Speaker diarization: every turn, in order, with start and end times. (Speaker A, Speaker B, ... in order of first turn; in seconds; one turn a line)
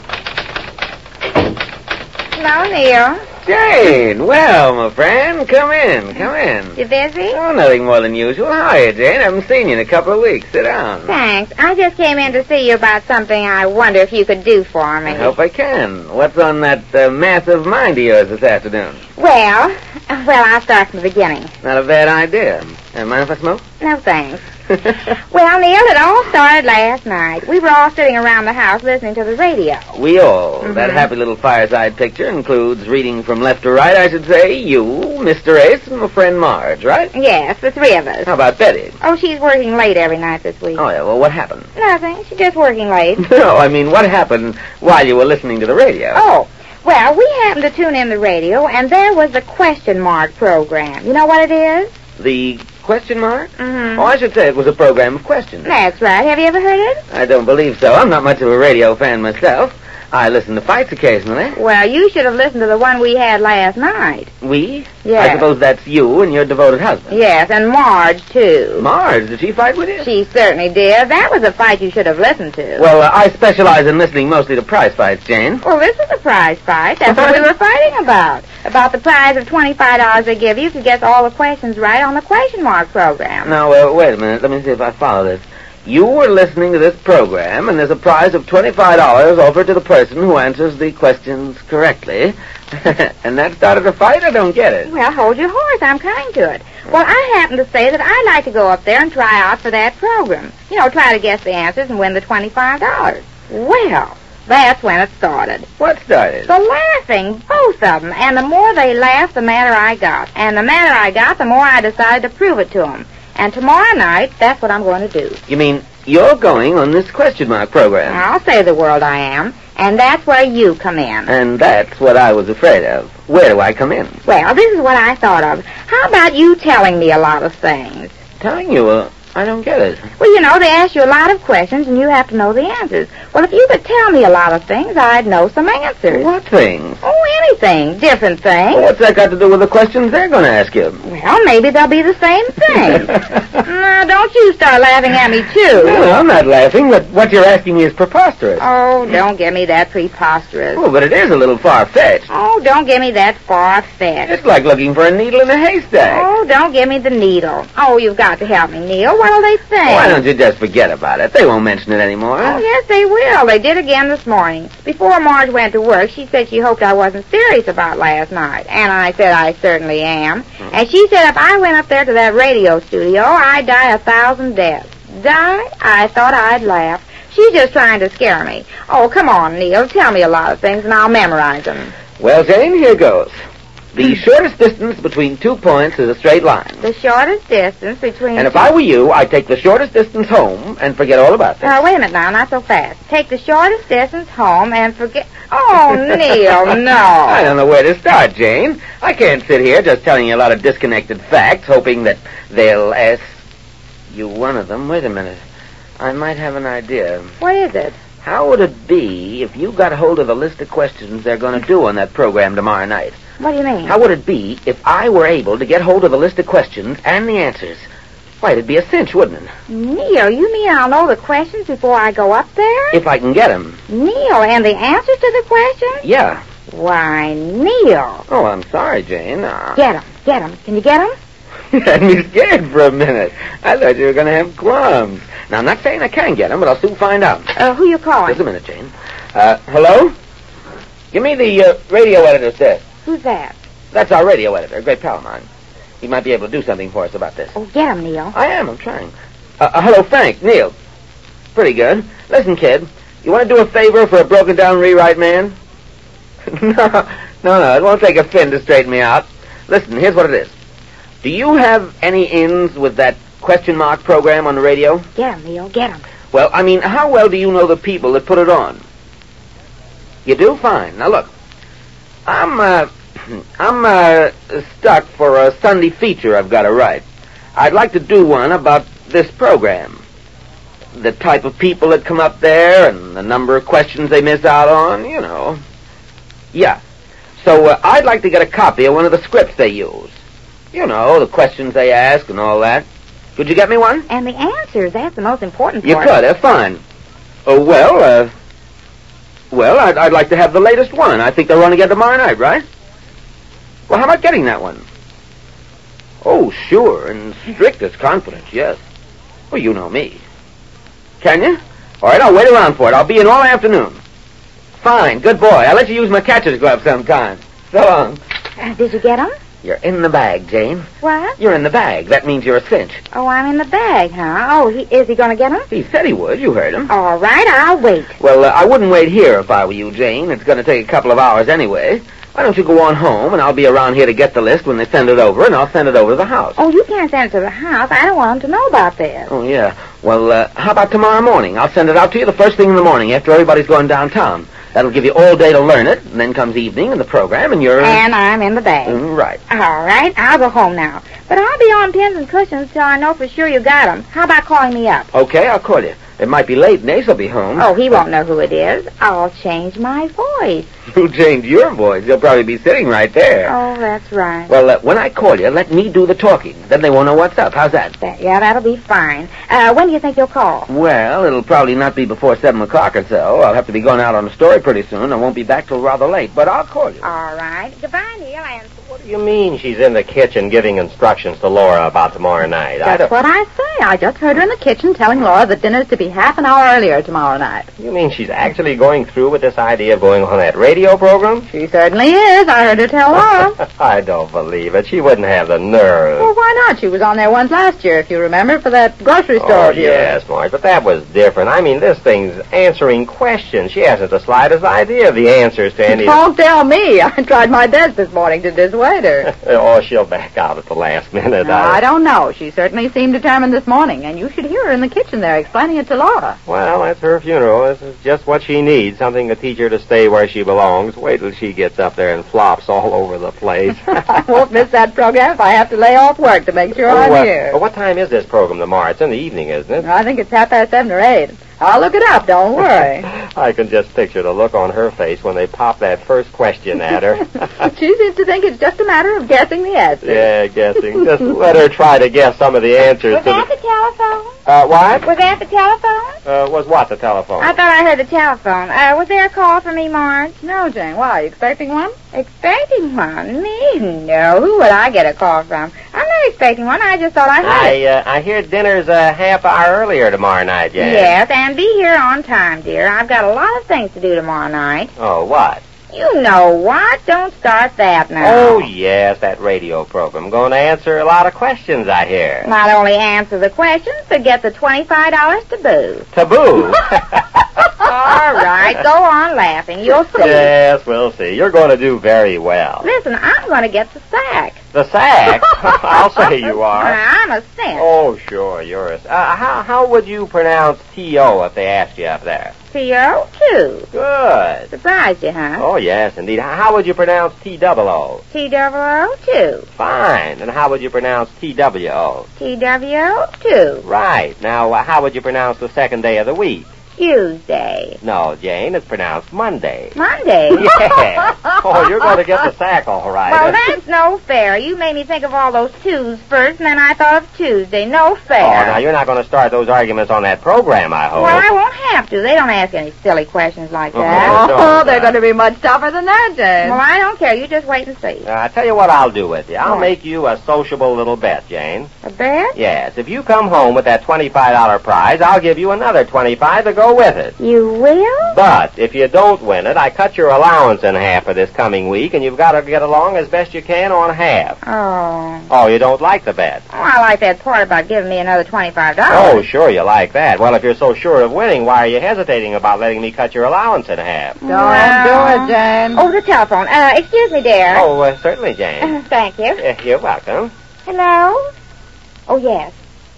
Speaker A: 2.3-3.2
Speaker B: 3.4-6.8
Speaker A: 6.8-7.4
Speaker B: 7.3-11.2
Speaker A: 11.0-15.3
Speaker B: 15.1-19.0
Speaker A: 19.1-21.5
Speaker B: 21.6-23.6
Speaker A: 23.8-24.4
Speaker A: 25.0-29.9
Speaker B: 29.9-37.1
Speaker A: 30.6-31.1
Speaker A: 37.1-38.3
Speaker B: 38.2-39.0
Speaker A: 39.0-40.8
Speaker B: 40.8-41.7
Speaker A: 41.8-43.2
Speaker B: 43.2-46.2
Speaker A: 46.1-51.9
Speaker B: 52.2-55.7
Speaker A: 53.6-54.1
Speaker A: 55.6-57.0
Speaker B: 57.1-61.6
Speaker A: 61.5-64.3
Speaker B: 64.4-67.2
Speaker A: 65.0-65.5
Speaker A: 67.1-68.9
Speaker B: 68.8-70.1
Speaker A: 70.0-72.9
Speaker B: 72.8-75.6
Speaker A: 75.6-83.5
Speaker B: 77.1-77.4
Speaker B: 83.4-94.9
Speaker A: 94.8-105.7
Speaker B: 105.8-106.5
Speaker A: 106.5-115.4
Speaker B: 115.5-118.2
Speaker A: 118.1-121.3
Speaker B: 121.3-124.2
Speaker A: 124.2-128.1
Speaker B: 128.4-130.1
Speaker A: 130.2-136.3
Speaker B: 136.1-137.0
Speaker A: 137.0-138.9
Speaker B: 138.7-141.0
Speaker A: 141.0-146.2
Speaker B: 145.7-148.7
Speaker A: 148.6-150.8
Speaker B: 150.8-152.3
Speaker A: 152.3-154.4
Speaker B: 154.2-156.3
Speaker A: 156.0-160.2
Speaker B: 159.8-162.6
Speaker A: 162.4-181.9
Speaker B: 182.2-183.3
Speaker B: 183.9-186.8
Speaker A: 186.8-188.7
Speaker B: 188.3-191.8
Speaker A: 191.6-197.5
Speaker B: 197.2-203.2
Speaker B: 204.1-205.4
Speaker B: 206.0-207.3
Speaker A: 207.4-207.9
Speaker B: 208.2-213.2
Speaker A: 213.4-213.9
Speaker B: 213.8-217.8
Speaker B: 218.4-219.5
Speaker A: 219.7-223.0
Speaker B: 222.9-223.8
Speaker A: 223.9-226.0
Speaker B: 226.0-226.4
Speaker A: 226.7-228.2
Speaker B: 228.3-229.8
Speaker A: 229.7-231.1
Speaker B: 231.7-237.5
Speaker A: 237.6-238.4
Speaker B: 238.3-240.1
Speaker B: 241.1-242.8
Speaker A: 243.0-243.6
Speaker B: 243.9-245.4
Speaker B: 246.0-247.5
Speaker A: 247.5-248.3
Speaker B: 248.3-250.7
Speaker B: 251.5-255.5
Speaker B: 256.5-260.5
Speaker B: 261.2-265.1
Speaker A: 265.1-266.0
Speaker B: 266.3-268.8
Speaker B: 270.2-271.3
Speaker B: 272.3-277.0
Speaker B: 277.6-280.0
Speaker B: 280.9-285.6
Speaker B: 286.5-286.8
Speaker B: 287.4-290.1
Speaker B: 290.7-292.8
Speaker B: 293.4-294.1
Speaker A: 294.1-296.1
Speaker B: 295.8-296.8
Speaker B: 297.4-298.3
Speaker B: 299.5-302.6
Speaker B: 303.9-304.8
Speaker B: 306.2-308.8
Speaker B: 309.5-310.2
Speaker B: 311.2-314.0
Speaker B: 314.8-318.2
Speaker A: 318.6-319.3
Speaker B: 319.6-323.0
Speaker A: 321.0-321.4
Speaker A: 323.1-325.7
Speaker B: 325.7-326.9
Speaker A: 326.9-328.1
Speaker B: 328.2-336.6
Speaker A: 336.6-339.3
Speaker B: 339.3-348.0
Speaker A: 347.8-355.1
Speaker B: 348.8-349.4
Speaker B: 355.1-357.7
Speaker A: 357.6-360.7
Speaker B: 360.9-363.5
Speaker A: 363.4-364.5
Speaker B: 364.5-367.9
Speaker A: 368.0-370.7
Speaker B: 370.7-377.1
Speaker A: 377.0-378.7
Speaker C: 378.9-383.1
Speaker D: 382.8-387.7
Speaker C: 387.8-391.5
Speaker D: 391.5-393.6
Speaker C: 393.6-396.3
Speaker D: 396.2-400.2
Speaker C: 399.4-406.2
Speaker D: 405.9-409.3
Speaker C: 409.2-411.8
Speaker D: 411.4-416.4
Speaker C: 416.4-423.9
Speaker D: 423.9-427.6
Speaker C: 426.9-429.9
Speaker D: 429.8-433.1
Speaker C: 433.0-437.4
Speaker D: 437.6-440.2
Speaker C: 440.0-443.5
Speaker A: 443.1-444.3
Speaker C: 444.4-445.1
Speaker A: 445.0-446.2
Speaker C: 446.2-447.6
Speaker A: 447.4-450.4
Speaker D: 450.4-451.9
Speaker A: 452.1-457.8
Speaker C: 457.4-461.1
Speaker A: 460.8-464.9
Speaker C: 464.9-465.6
Speaker A: 465.9-468.6
Speaker C: 468.2-472.5
Speaker A: 472.4-476.1
Speaker C: 476.1-477.4
Speaker A: 477.8-480.5
Speaker C: 480.1-482.9
Speaker A: 482.8-484.6
Speaker C: 484.7-487.0
Speaker A: 486.7-487.8
Speaker C: 487.7-492.5
Speaker A: 492.7-493.9
Speaker C: 493.9-494.7
Speaker A: 494.7-495.6
Speaker C: 495.6-498.2
Speaker A: 498.3-499.7
Speaker C: 499.8-502.3
Speaker A: 502.4-503.8
Speaker C: 503.8-506.7
Speaker A: 507.0-508.0
Speaker C: 508.0-509.9
Speaker A: 509.9-510.7
Speaker C: 510.5-513.6
Speaker A: 513.3-518.8
Speaker C: 518.4-521.5
Speaker A: 521.1-524.5
Speaker C: 523.9-525.2
Speaker D: 524.0-526.8
Speaker A: 526.6-528.3
Speaker C: 528.2-531.9
Speaker A: 529.6-529.9
Speaker A: 532.0-532.6
Speaker C: 532.5-537.4
Speaker A: 537.4-538.4
Speaker C: 538.3-544.6
Speaker A: 544.6-545.5
Speaker C: 545.5-546.6
Speaker A: 546.7-549.4
Speaker C: 549.1-554.4
Speaker A: 554.4-557.9
Speaker D: 554.5-556.0
Speaker C: 557.7-559.0
Speaker A: 558.8-559.6
Speaker C: 559.6-560.5
Speaker A: 560.9-561.4
Speaker A: 562.3-562.7